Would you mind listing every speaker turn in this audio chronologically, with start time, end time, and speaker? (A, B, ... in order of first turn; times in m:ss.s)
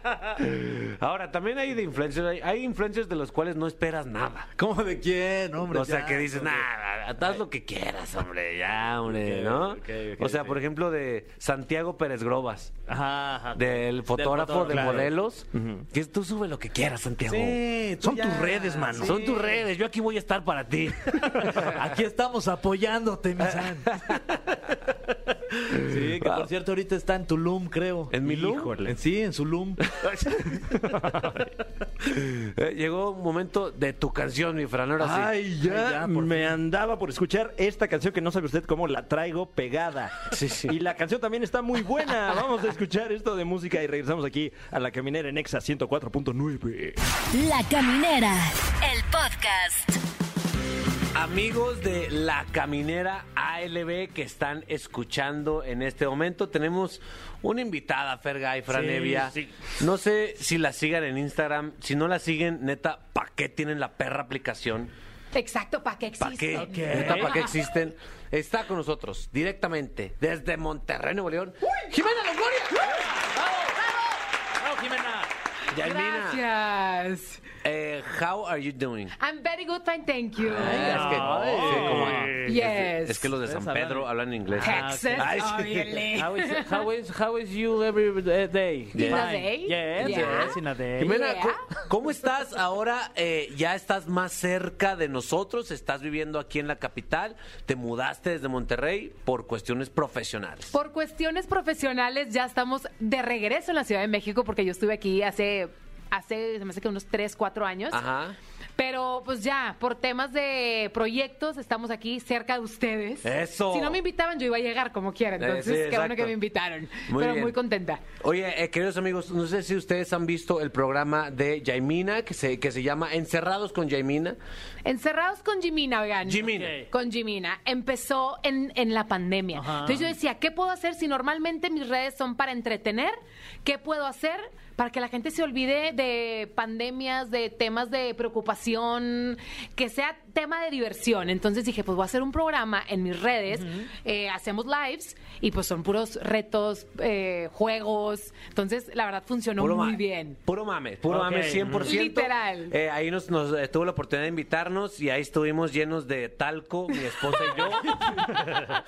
0:00.4-0:04.5 A
0:04.6-0:06.7 B
0:05.7-0:12.7 A
0:09.2-0:10.6 B
0:12.9-0:15.1 B
0:13.6-0:17.6 A
0:14.7-0:15.0 C
0:15.5-0:15.9 C
0:17.2-0:19.6 B
0:18.0-0:19.2 C
0:19.0-0:21.8 A
0:21.3-0:24.0 B
0:23.5-0:24.2 A
0:25.7-0:28.1 B
0:26.2-0:26.5 A
0:28.1-0:28.8 A
0:28.2-0:28.9 C
0:28.8-0:29.8 B
0:30.0-0:31.5 C
0:32.1-0:35.4 A
0:35.0-0:47.0 C
0:35.6-0:36.6 B
0:40.3-0:40.7 A
0:47.3-0:50.0 D
0:51.1-1:04.9 A
0:58.7-0:59.6 C
1:05.3-1:07.5 E
1:06.2-1:13.0 A
1:06.6-1:07.4 B
1:06.8-1:07.3 C
1:13.4-1:13.8 B
1:14.6-1:15.3 B
1:15.7-1:16.4 A
1:15.8-1:17.4 E
1:17.6-1:19.1 A
1:19.2-1:21.2 E
1:20.5-1:26.1 A
1:20.6-1:22.3 B
1:20.7-1:22.6 C
1:22.4-1:23.3 E
1:23.4-1:25.4 B
1:24.6-1:26.8 E
1:26.1-1:31.2 B
1:28.9-1:29.3 A
1:29.0-1:31.6 E
1:30.0-1:40.7 A
1:40.7-1:48.0 E
1:47.9-1:48.4 A
1:48.8-1:58.0 E
1:53.2-1:54.0 A
1:55.4-1:56.4 A
1:57.1-1:57.6 A
1:58.2-2:04.4 A
2:04.8-2:30.4 E
2:06.2-2:06.8 A
2:06.6-2:06.8 B
2:09.6-2:10.1 B
2:29.6-2:38.2 A
2:31.1-2:31.9 C
2:31.8-2:32.7 E
2:38.3-2:38.7 C